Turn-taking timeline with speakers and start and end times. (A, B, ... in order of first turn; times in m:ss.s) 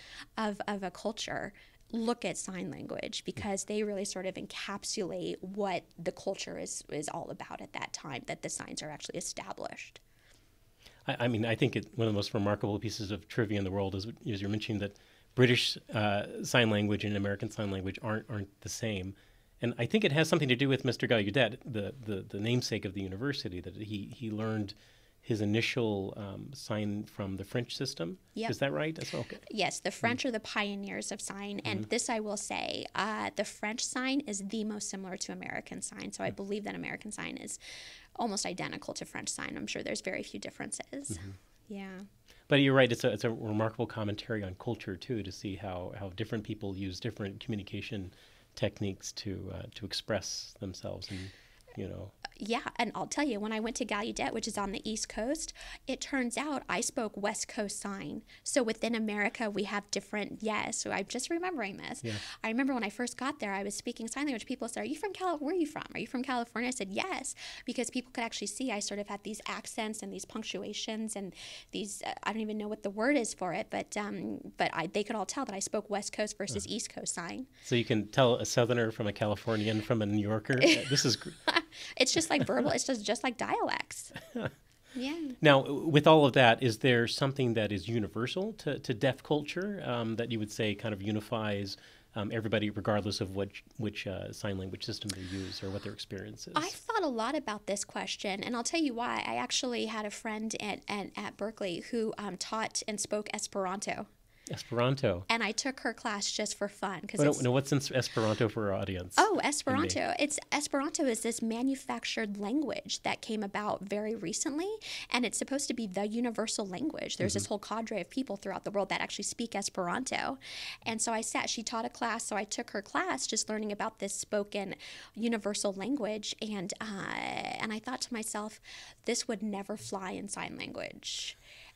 0:00.4-0:10.0 A
0:11.1-0:29.4 B
0:29.4-0:37.6 A
0:38.2-0:42.1 A
0:42.5-0:52.2 B
0:52.3-1:17.5 A
1:17.6-1:21.4 B
1:20.6-1:24.1 A
1:25.0-1:25.4 A
1:25.4-1:36.7 B
1:36.6-1:44.1 A
1:44.5-1:45.3 B
1:45.3-1:47.5 A
1:47.2-1:50.0 B
1:49.2-2:11.4 A